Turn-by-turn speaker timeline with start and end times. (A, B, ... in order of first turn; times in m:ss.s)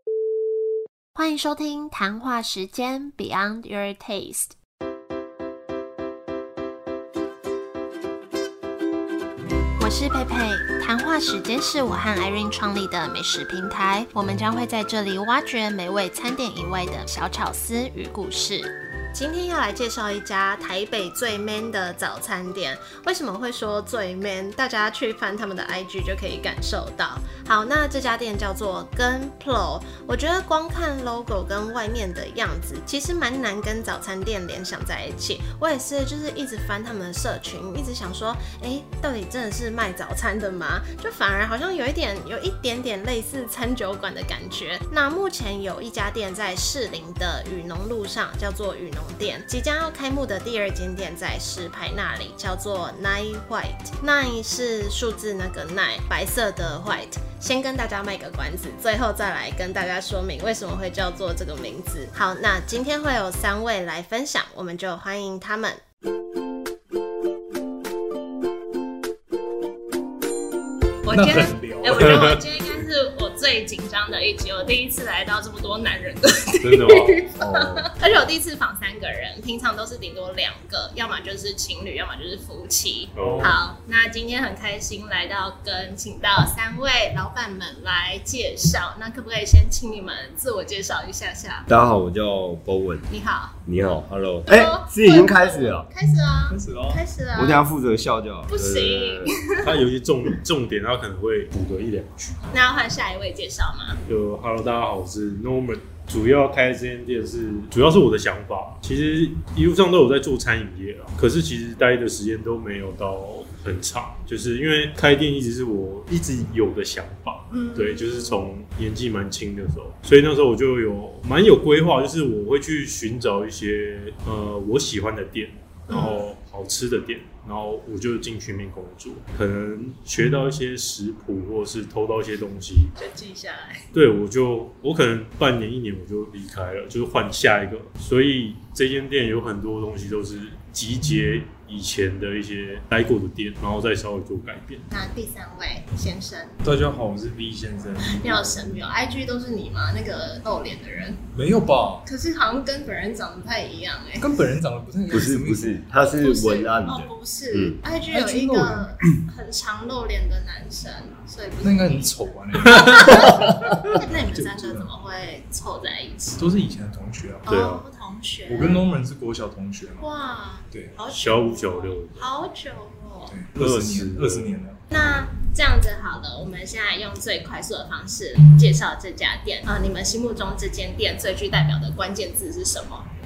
0:01.2-0:04.5 A
0:09.8-1:05.8 A
1:01.6-1:01.9 B
1:11.0-1:31.7 B
1:11.1-1:12.4 C
1:11.9-1:12.4 D
1:16.6-1:17.3 D
1:23.1-1:23.6 D
1:23.2-1:23.6 C
1:31.7-1:33.1 E
1:33.1-1:33.6 B
1:33.7-1:35.9 E
1:34.4-1:37.6 B
1:36.5-1:37.0 C
1:37.4-1:39.4 E
1:38.5-1:39.7 B
1:39.6-1:42.4 D
1:42.5-1:44.0 B
1:44.1-2:12.9 D
1:57.5-1:58.4 B
2:05.9-2:06.2 B
2:13.0-2:13.9 B
2:13.9-2:24.8 D
2:24.9-2:26.6 B
2:26.6-2:28.9 C
2:28.0-2:31.2 B
2:31.3-2:32.1 C
2:32.0-2:34.3 B
2:34.2-2:35.8 C
2:35.1-2:37.8 E
2:36.0-2:46.4 B
2:38.1-2:39.0 C
2:41.6-2:44.9 C
2:46.4-2:47.5 C
2:47.4-2:48.8 B
2:47.5-2:47.8 D
2:48.5-2:50.1 C
2:50.0-2:53.3 B
2:51.1-2:52.3 D
2:53.3-2:54.8 C
2:53.6-2:54.6 D
2:54.9-3:03.1 B